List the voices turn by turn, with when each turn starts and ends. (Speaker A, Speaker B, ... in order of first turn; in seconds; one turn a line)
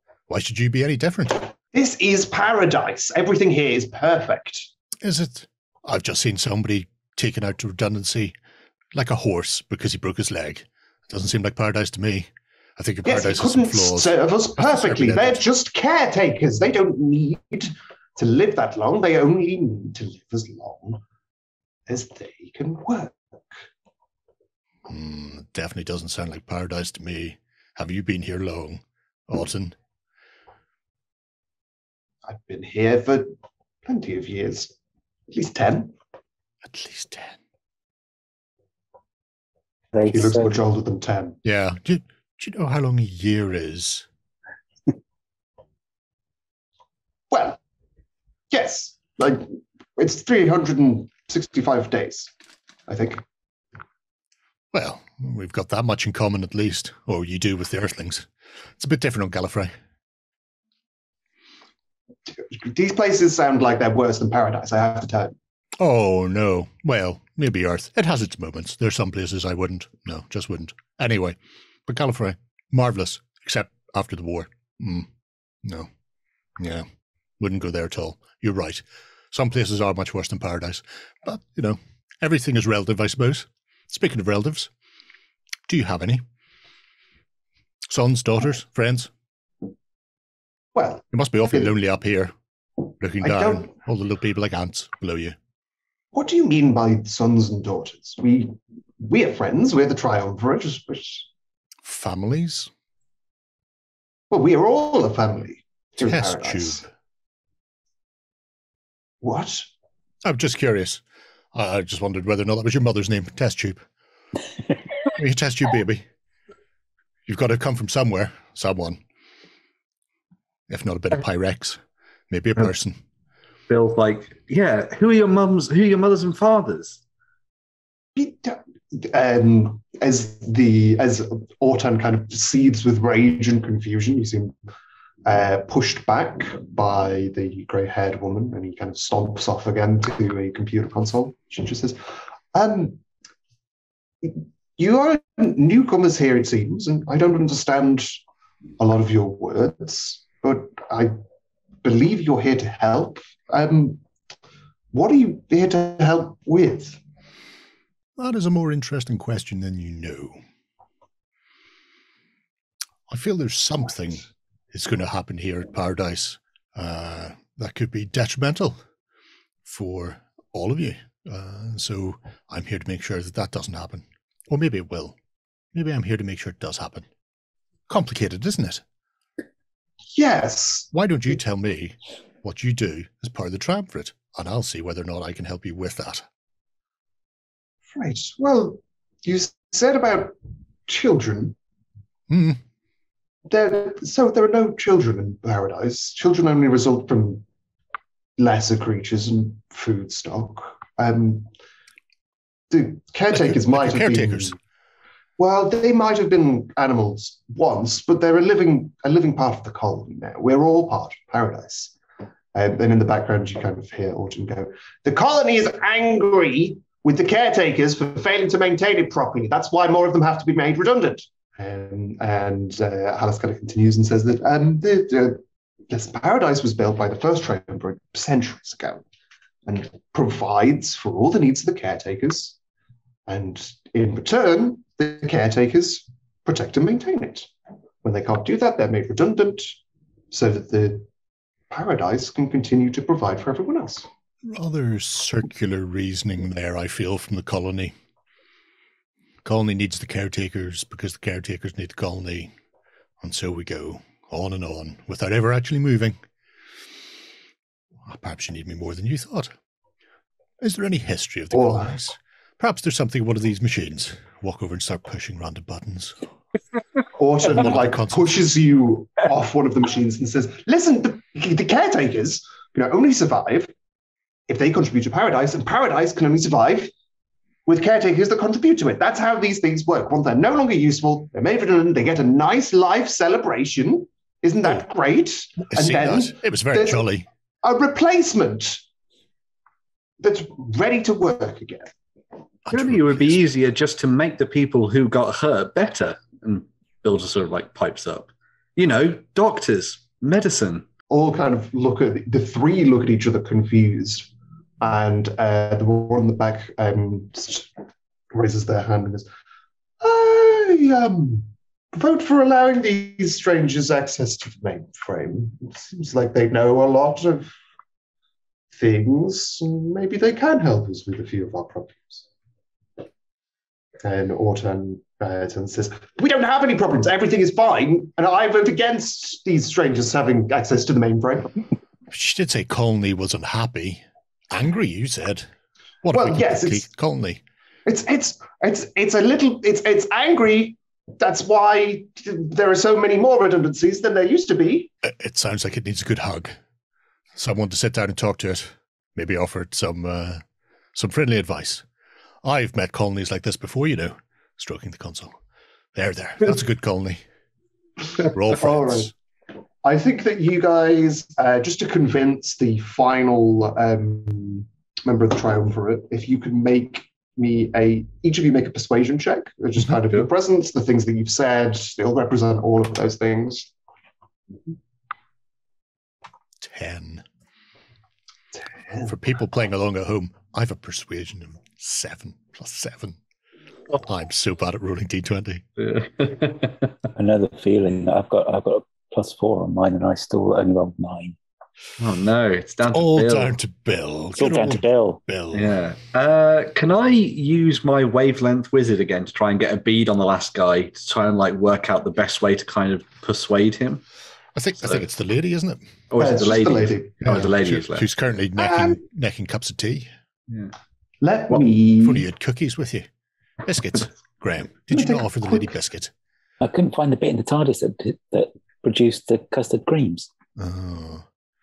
Speaker A: 0.3-1.5
Speaker B: 1.7-4.7
Speaker A: 5.0-8.3
Speaker A: 8.9-15.4
Speaker B: 13.1-21.0
Speaker B: 21.9-23.6
Speaker A: 24.9-29.8
Speaker B: 32.2-33.3
Speaker B: 33.9-34.7
Speaker B: 35.3-35.9
Speaker A: 36.6-37.4
Speaker C: 39.9-40.6
Speaker B: 40.1-41.4
Speaker A: 41.4-44.1
Speaker B: 47.3-47.6
Speaker B: 48.5-52.3
Speaker B: 52.9-53.2
Speaker A: 54.7-58.3
Speaker A: 58.8-59.7
Speaker B: 62.3-65.3
Speaker A: 65.8-75.1
Speaker A: 75.6-75.9
Speaker A: 76.6-76.9
Speaker A: 77.4-84.7
Speaker A: 85.7-86.2
Speaker A: 87.9-89.1
Speaker B: 90.8-91.7
Speaker A: 91.1-92.3
Speaker A: 93.0-95.4
Speaker B: 93.2-93.7
Speaker B: 96.1-101.3
Speaker A: 101.8-102.7
Speaker B: 104.3-106.9
Speaker A: 106.0-106.8
Speaker B: 109.2-109.7
Speaker A: 110.2-111.0
Speaker A: 111.5-113.8
Speaker A: 115.1-116.0
Speaker A: 117.3-119.0
Speaker A: 120.7-123.0
Speaker D: 123.7-127.0
Speaker B: 128.2-134.6
Speaker B: 135.3-142.0
Speaker B: 142.5-143.0
Speaker B: 144.2-148.2
Speaker B: 148.8-151.2
Speaker B: 151.8-154.0
Speaker B: 154.9-157.0
Speaker A: 158.2-160.4
Speaker A: 163.1-168.8
Speaker A: 169.7-175.2
Speaker A: 175.7-177.1
Speaker A: 177.9-178.8
Speaker B: 180.2-180.9
Speaker A: 180.9-186.2
Speaker B: 187.9-190.3
Speaker B: 190.9-191.6
Speaker A: 192.3-192.6
Speaker B: 193.5-197.4
Speaker B: 198.4-201.5
Speaker B: 202.7-204.6
Speaker A: 203.3-204.6
Speaker B: 205.4-211.9
Speaker B: 212.5-229.0
Speaker B: 229.7-232.6
Speaker B: 233.3-237.5
Speaker B: 238.0-239.8
Speaker B: 240.3-241.1
Speaker B: 241.7-244.1
Speaker A: 244.5-247.9
Speaker A: 249.4-252.5
Speaker A: 253.2-256.2
Speaker A: 258.1-259.5
Speaker A: 260.6-266.2
Speaker B: 261.5-262.0
Speaker B: 267.1-273.7
Speaker A: 267.4-268.4
Speaker B: 274.5-276.9
Speaker B: 277.7-287.1
Speaker A: 285.7-287.2
Speaker B: 287.6-288.8
Speaker B: 290.2-291.9
Speaker A: 292.7-293.4
Speaker D: 292.7-300.9
Speaker B: 301.1-304.3
Speaker B: 304.8-307.7
Speaker B: 308.3-309.3
Speaker B: 310.0-317.5
Speaker B: 318.7-322.2
Speaker B: 324.0-331.6
Speaker A: 332.1-335.5
Speaker A: 336.0-337.4
Speaker B: 336.1-336.9
Speaker B: 337.9-344.9
Speaker A: 345.0-346.6
Speaker A: 347.4-350.4
Speaker A: 350.9-351.9
Speaker A: 352.4-355.3
Speaker A: 355.9-357.2
Speaker A: 358.3-359.1
Speaker B: 358.6-359.1
Speaker B: 359.8-373.7
Speaker A: 376.6-377.2
Speaker A: 379.0-383.2
Speaker A: 383.9-385.6
Speaker D: 385.8-386.8
Speaker C: 387.2-391.4
Speaker D: 392.0-393.6
Speaker A: 392.9-395.8
Speaker C: 394.4-395.2
Speaker D: 395.5-404.0
Speaker A: 404.6-405.9
Speaker D: 406.1-408.1
Speaker B: 406.2-407.3
Speaker A: 407.2-410.1
Speaker B: 408.6-409.0
Speaker B: 411.2-412.3
Speaker A: 412.0-413.1
Speaker A: 413.7-416.1
Speaker B: 414.9-415.8
Speaker C: 416.6-420.3
Speaker A: 420.6-421.3